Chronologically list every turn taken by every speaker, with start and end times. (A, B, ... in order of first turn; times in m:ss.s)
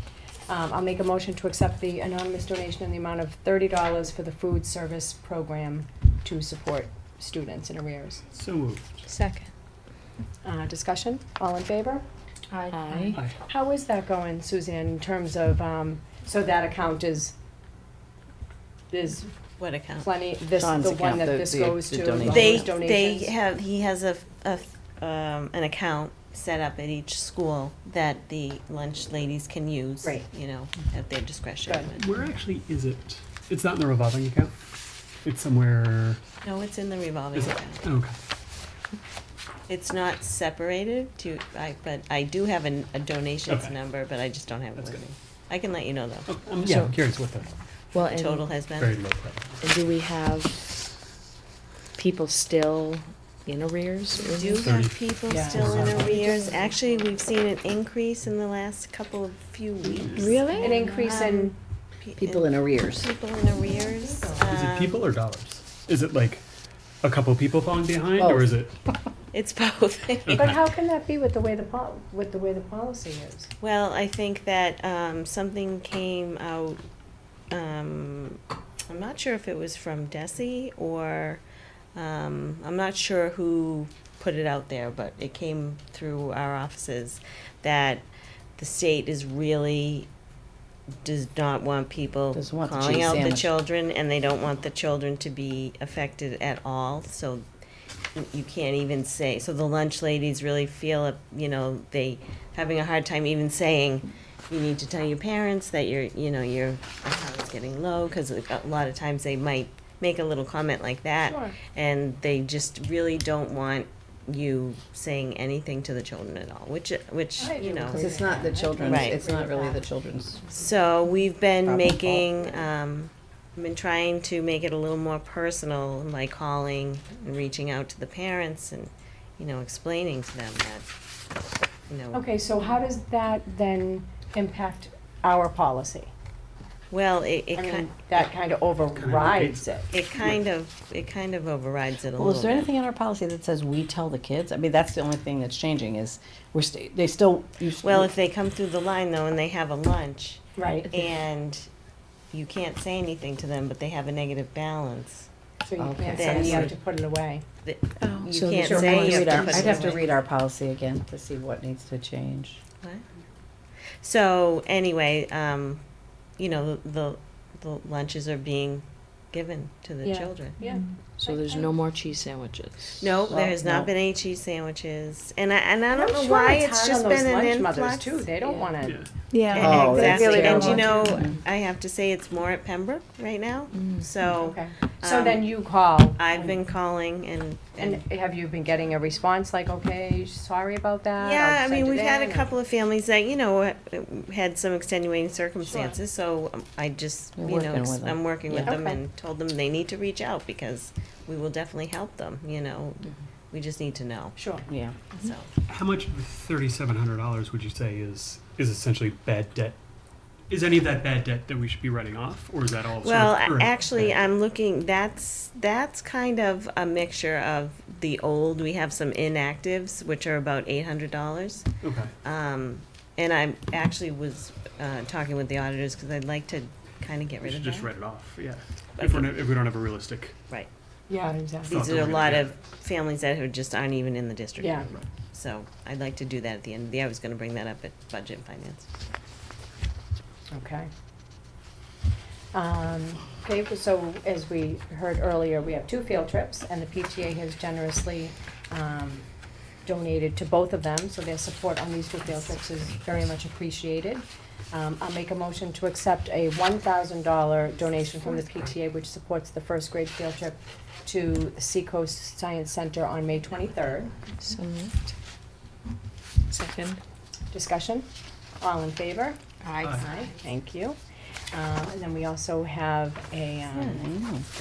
0:00.5-0:08.2 A
0:08.3-0:08.9 B
0:09.1-0:09.5 C
0:10.4-0:12.0 A
0:12.5-0:13.3 C
0:12.9-0:17.4 A
0:18.9-0:19.3 A
0:19.6-0:20.1 D
0:20.0-0:23.4 A
0:20.6-0:22.7 E
0:22.3-0:32.2 D
0:31.7-0:31.9 A
0:32.0-0:34.5 B
0:35.2-0:36.2 B
0:36.4-0:37.8 D
0:37.3-0:38.1 B
0:39.7-0:46.3 D
0:43.5-0:43.8 B
0:44.8-0:45.2 B
0:46.3-0:47.5 B
0:46.6-0:47.0 C
0:47.9-0:48.5 C
0:48.0-0:49.0 D
0:48.8-0:49.6 B
0:49.6-0:50.6 C
0:52.0-0:54.7 C
0:54.2-1:05.1 D
0:54.6-0:56.2 B
0:55.3-0:56.2 A
1:00.0-1:00.3 B
1:00.1-1:01.1 C
1:00.6-1:01.6 A
1:02.2-1:03.1 E
1:03.7-1:04.4 A
1:04.5-1:06.4 B
1:07.0-1:08.7 B
1:08.2-1:08.5 E
1:09.3-1:10.6 D
1:10.3-1:10.6 B
1:10.3-1:13.5 A
1:13.6-1:16.8 D
1:17.5-1:21.4 D
1:22.0-1:28.1 D
1:28.6-1:30.1 D
1:31.0-1:37.4 D
1:32.3-1:33.5 E
1:38.2-1:58.2 D
1:51.2-1:51.6 A
1:57.4-1:59.8 A
1:57.9-2:00.4 E
1:58.8-1:59.2 D
2:00.5-2:10.8 D
2:01.6-2:02.3 E
2:11.9-2:12.2 D
2:12.1-2:16.1 A
2:16.9-2:18.3 D
2:17.6-2:19.9 A
2:18.9-2:20.4 B
2:19.9-2:22.7 D
2:22.2-2:28.1 E
2:27.8-2:31.7 D
2:30.6-2:31.0 A
2:32.3-2:35.3 D
2:35.7-2:37.4 A
2:35.8-2:36.7 E
2:36.1-2:36.8 D
2:37.6-2:40.0 D
2:38.0-2:39.8 C
2:38.6-2:42.6 E
2:44.0-2:45.8 D
2:46.4-2:50.6 D
2:50.0-2:51.7 A
2:50.7-2:53.1 C
2:53.0-2:58.4 D
2:53.3-2:53.9 E
2:55.9-2:59.1 A
2:59.3-3:01.2 C
2:59.5-3:05.5 D
2:59.6-3:01.3 E
3:00.6-3:01.1 A
3:03.7-3:04.1 C
3:04.3-3:06.6 A
3:06.2-3:08.0 D
3:07.8-3:12.5 A
3:11.2-3:24.4 D
3:15.6-3:16.0 A
3:17.4-3:18.8 E
3:18.6-3:19.0 A
3:24.4-3:24.7 A
3:24.7-3:25.0 E
3:25.2-3:25.5 D
3:25.7-3:29.8 B
3:30.5-3:34.2 B
3:33.0-3:41.7 D
3:41.8-3:42.1 B
3:42.2-3:47.9 D
3:47.4-3:50.4 B
3:49.0-3:49.4 D
3:51.1-3:51.7 A
3:51.6-3:58.8 D
3:51.7-3:52.5 B
3:54.6-3:54.9 A
4:00.5-4:00.9 A
4:02.5-4:09.2 A
4:09.8-4:24.3 A
4:24.4-4:25.0 C
4:26.5-4:27.0 C
4:27.5-4:28.1 A
4:28.6-4:31.0 A
4:29.6-4:30.3 C
4:31.5-4:34.0 A
4:33.8-4:34.5 E